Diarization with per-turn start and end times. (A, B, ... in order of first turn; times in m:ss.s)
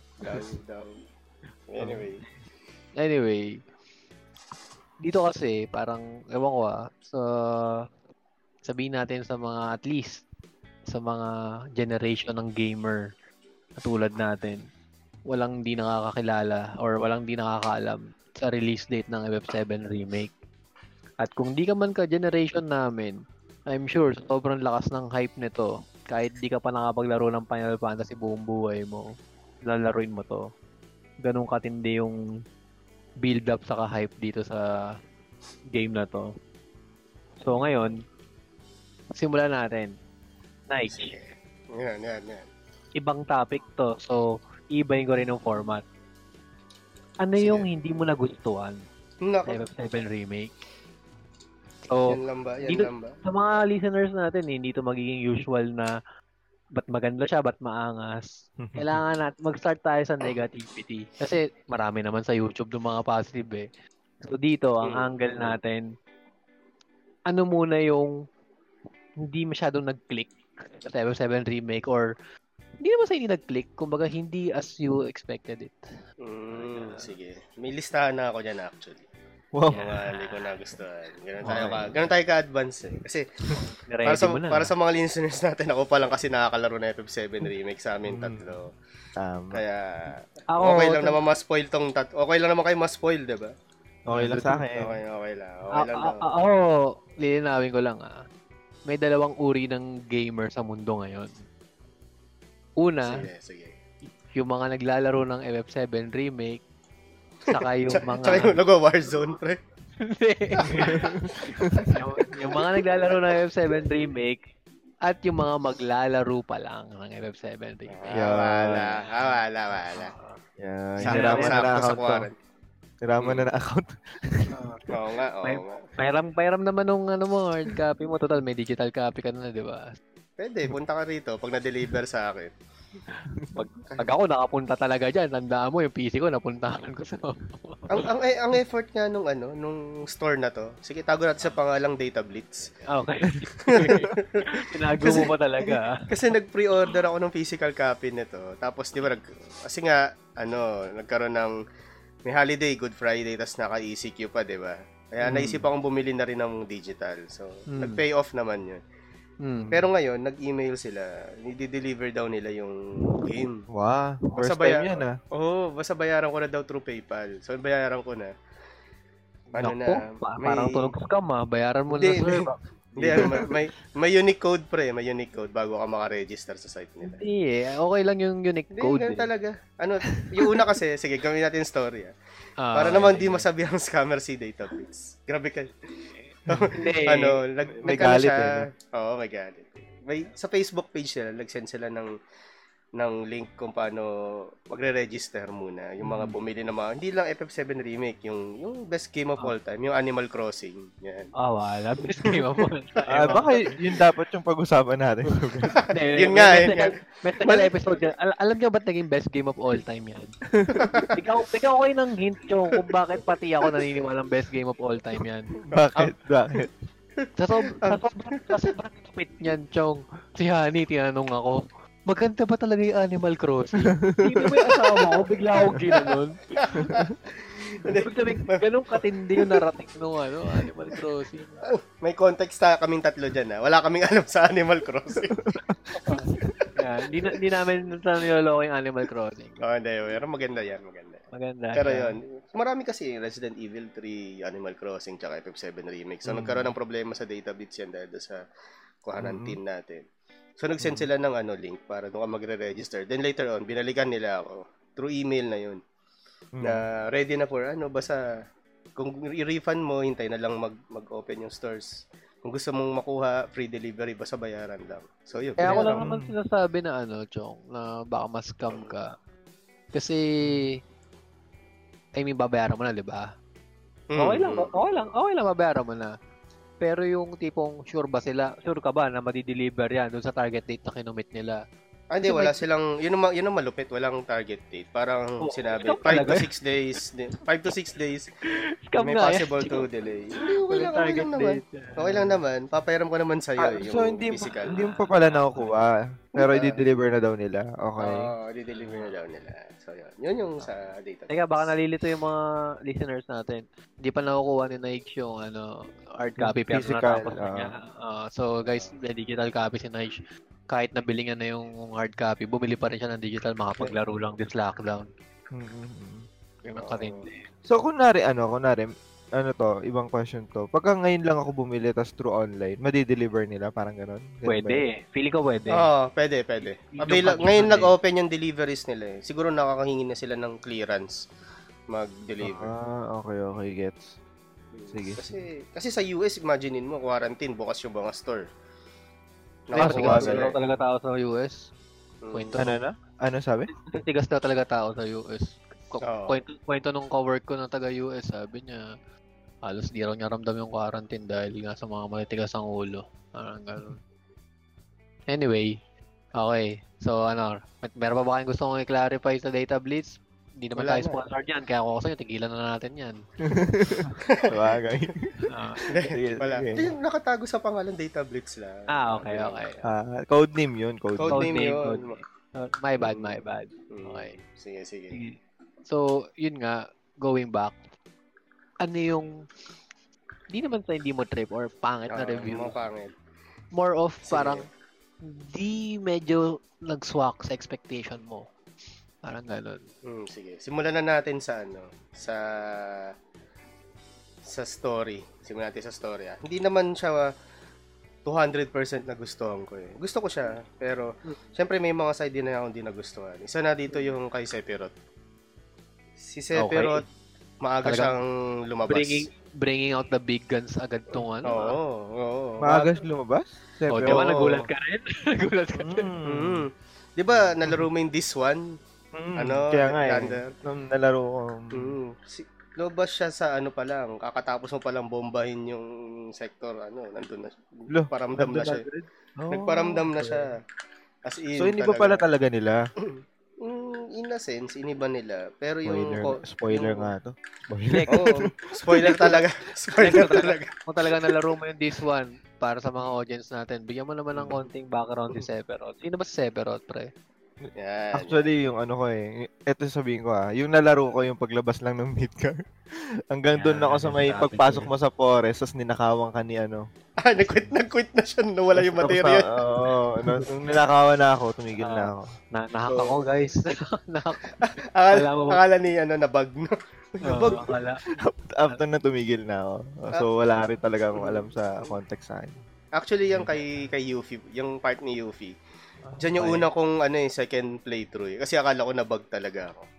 0:00.2-0:00.9 A
0:01.7-0:02.2 A
0:01.8-0:02.0 B
0:03.0-0:03.5 C
0:05.0-0:07.9 C
0:08.6-0:10.2 C
0:10.9-0:13.1 C
0:13.8-0:14.6 C
0:15.3-0:20.3 C
0:21.2-0:29.1 C
0:29.6-0:30.4 C
0:31.2-0:32.2 C
0:33.2-0:34.7 C
0:35.7-0:36.3 C
0:37.4-0:38.0 C
0:39.1-0:39.9 C
0:40.7-0:41.1 C
0:40.9-0:42.5 A
0:43.0-0:44.2 C
0:44.7-0:45.8 C
0:47.2-0:48.8 C
0:47.4-0:47.6 A
0:49.2-0:49.6 A
0:49.4-0:50.5 C
0:51.9-0:52.2 C
0:52.1-0:53.2 A
0:52.7-0:55.9 C
0:56.8-1:03.6 C
0:58.6-0:59.0 B
1:04.2-1:05.8 C
1:04.8-1:05.1 A
1:07.3-1:08.1 C
1:09.2-1:12.1 C
1:12.8-1:15.8 C
1:16.2-1:19.1 A
1:16.5-1:17.1 C
1:19.5-1:19.9 B
1:19.7-1:20.5 C
1:19.7-1:23.2 A
1:21.5-1:21.9 C
1:21.5-1:22.0 B
1:23.9-1:24.7 C
1:24.0-1:28.7 A
1:28.1-1:28.6 B
1:29.2-1:29.6 B
1:29.5-1:33.5 A
1:30.5-1:31.2 C
1:34.1-1:34.9 B
1:34.1-1:34.6 C
1:34.7-1:36.2 A
1:35.8-1:38.2 C
1:38.9-1:41.3 C
1:42.8-1:43.2 C
1:43.0-1:43.7 A
1:44.3-1:46.6 C
1:47.5-1:49.6 A
1:47.5-1:48.6 C
1:50.0-1:54.4 C
1:50.6-1:51.1 A
1:50.7-1:52.0 B
1:51.7-1:53.4 A
1:55.0-1:58.4 C
1:57.9-2:00.1 A
1:58.1-1:59.0 B
1:59.9-2:00.4 C
2:00.6-2:02.3 B
2:01.0-2:02.3 A
2:01.0-2:01.7 C
2:03.0-2:04.7 B
2:03.2-2:03.5 A
2:04.5-2:04.8 C
2:04.9-2:05.9 A
2:05.4-2:09.9 C
2:10.4-2:12.5 A
2:13.5-2:18.0 C
2:17.9-2:22.6 A
2:22.9-2:26.0 C
2:23.6-2:24.4 A
2:25.0-2:25.3 A
2:26.0-2:31.6 A
2:32.2-2:38.8 A
2:35.2-2:35.6 C
2:37.7-2:38.0 C
2:39.4-2:39.8 C
2:39.6-2:39.8 B
2:39.7-2:43.6 A
2:43.7-2:45.2 B
2:44.4-2:48.3 A
2:49.6-2:50.9 A
2:49.6-2:52.6 C
2:51.9-2:57.2 A
2:53.1-2:53.5 C
2:57.0-2:59.3 C
2:58.7-3:02.1 A
3:02.6-3:03.4 C
3:02.7-3:12.1 A
3:06.7-3:07.4 C
3:07.8-3:08.6 B
3:13.0-3:21.3 A
3:16.0-3:16.3 C
3:21.4-3:23.7 C
3:23.1-3:23.4 A
3:23.1-3:25.8 B
3:25.8-3:26.9 A
3:25.9-3:30.3 C
3:27.4-3:28.0 A
3:30.5-3:31.0 B
3:30.8-3:31.1 A
3:31.1-3:35.5 C
3:35.6-3:36.1 A
3:35.7-3:36.7 B
3:37.4-3:46.9 C
3:44.0-3:44.5 B
3:44.6-3:48.6 A
3:47.8-3:51.6 C
3:49.4-3:49.6 A
3:51.6-3:56.8 A
3:55.4-3:56.5 B
3:55.9-3:59.6 C
3:59.6-4:01.2 A
4:01.3-4:02.1 C
4:01.7-4:08.4 A
4:06.3-4:06.7 B
4:09.0-4:10.0 A
4:09.2-4:09.6 B
4:10.6-4:15.8 A
4:16.5-4:16.8 B
4:16.6-4:18.2 A
4:19.0-4:26.0 A
4:25.6-4:29.1 C
4:25.6-4:26.3 B
4:29.9-4:30.8 C
4:30.4-4:30.7 B
4:32.2-4:33.3 C
4:34.1-4:34.7 A
4:34.2-4:36.1 C
4:36.8-4:41.6 C
4:42.1-4:48.3 A
4:42.2-4:42.6 C
4:45.4-4:46.5 C
4:48.9-4:49.8 C
4:49.0-4:54.7 A
4:50.4-4:52.4 C
4:53.6-4:58.3 B
4:54.5-4:55.7 C
4:56.4-4:56.8 A
4:58.0-5:01.7 A
4:58.7-4:59.2 C
5:01.3-5:15.1 C
5:06.4-5:07.7 B
5:08.6-5:08.9 A
5:15.5-5:16.2 B
5:16.6-5:17.5 C
5:16.8-5:17.2 A
5:17.6-5:24.8 B
5:24.4-5:25.9 C
5:25.7-5:31.2 A
5:26.6-5:27.9 C
5:31.9-5:32.7 A
5:32.4-5:34.2 B
5:34.7-5:38.5 A
5:34.9-5:35.5 B
5:39.7-5:40.5 A
5:39.7-5:40.5 B
5:39.7-5:41.7 C
5:42.2-5:42.6 A
5:42.3-5:42.8 C
5:42.6-5:43.7 B
5:43.9-5:48.9 C
5:46.0-5:46.4 A
5:49.6-5:54.0 C
5:55.3-5:55.8 C
5:56.3-6:03.2 C
6:00.8-6:01.2 A
6:03.4-6:05.4 B
6:05.5-6:06.1 C
6:05.9-6:09.6 A
6:06.1-6:06.9 B
6:08.9-6:09.8 C
6:09.8-6:11.6 B
6:11.2-6:12.1 A
6:11.3-6:14.4 C
6:13.0-6:15.2 A
6:15.1-6:17.8 C
6:18.8-6:19.3 C
6:20.5-6:22.8 C
6:22.1-6:23.1 A
6:23.7-6:24.7 C
6:24.3-6:24.6 A
6:25.2-6:28.5 C
6:29.2-6:29.8 C
6:30.0-6:33.1 A
6:34.5-6:37.3 A
6:38.2-6:44.9 A
6:46.2-6:47.0 A
6:46.6-6:47.0 C
6:47.6-6:49.3 A
6:47.8-6:48.1 C
6:48.9-6:51.8 C
6:51.4-6:53.0 A
6:52.6-6:54.3 B
6:53.9-6:56.1 C
6:54.1-6:54.6 A
6:55.8-6:56.6 B
6:56.2-6:58.7 A
6:59.1-7:02.0 B
6:59.4-7:00.5 A
7:01.7-7:08.8 A
7:07.9-7:10.4 B
7:09.5-7:10.5 A
7:11.2-7:12.2 A
7:11.6-7:12.8 B
7:13.0-7:17.1 A
7:15.8-7:19.4 B
7:17.9-7:18.3 C
7:18.1-7:21.2 A
7:20.0-7:27.1 C
7:24.4-7:24.6 A
7:27.8-7:28.5 A
7:28.1-7:36.8 B
7:33.5-7:34.9 C
7:37.2-7:39.5 A
7:37.4-7:37.7 B
7:38.8-7:42.3 B
7:41.8-7:44.6 C
7:42.9-7:43.2 A
7:44.6-7:47.7 A
7:45.1-7:45.6 C
7:47.2-7:48.0 C
7:48.2-7:52.6 B
7:53.0-7:55.6 A
7:56.1-7:56.7 C
7:56.2-7:59.9 A